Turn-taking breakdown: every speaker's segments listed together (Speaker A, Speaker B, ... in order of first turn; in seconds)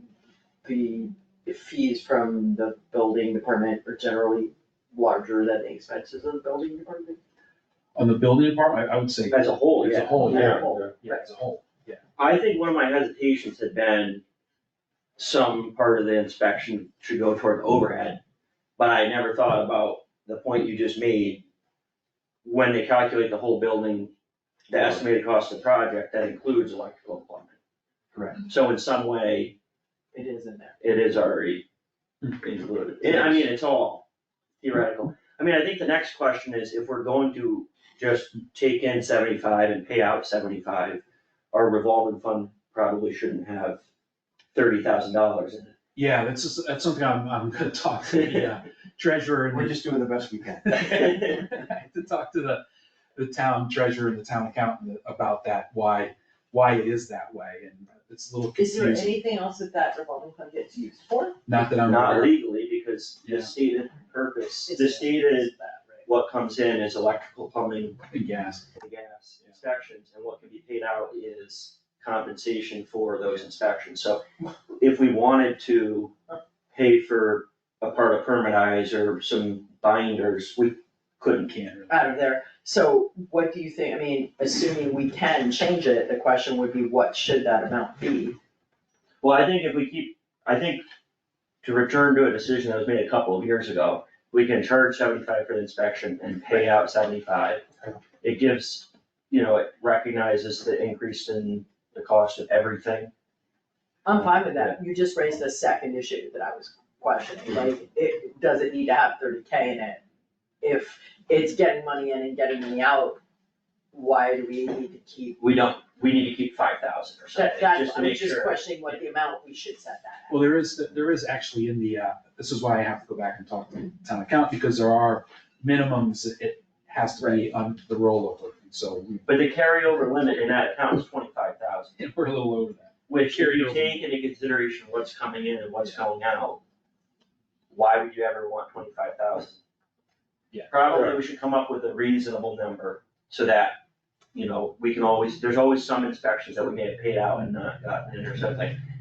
Speaker A: 0.6-7.2, 10.2-11.2, 30.1-30.8, 58.6-61.4, 64.7-66.0, 81.9-88.4, 104.0-110.0, 110.6-113.2, 113.9-115.4, 117.3-120.4, 127.2-127.5
Speaker B: 7.9-12.0, 45.9-49.8, 50.6-52.6, 53.1-59.2, 61.5-62.3, 63.2-63.5, 68.1-68.7, 81.5-82.0, 120.3-129.3, 132.0-134.0, 140.5-141.1
Speaker C: 9.3-10.9, 12.2-14.2, 15.2-18.2, 18.8-21.4, 22.4-24.1, 24.7-27.6, 28.4-29.5, 30.8-31.6, 32.3-34.0, 34.6-43.8, 44.5-45.7, 48.1-48.5, 50.9-51.4, 61.8-65.5, 66.0-68.0, 68.8-81.5, 89.2-90.8, 91.6-97.7, 98.2-103.1, 115.4-118.6, 129.3-132.0, 133.1-136.6, 137.7-139.6, 140.7-143.8, 144.3-148.8
Speaker D: 24.7-25.1, 28.1-28.4, 33.0-33.5, 49.5-50.8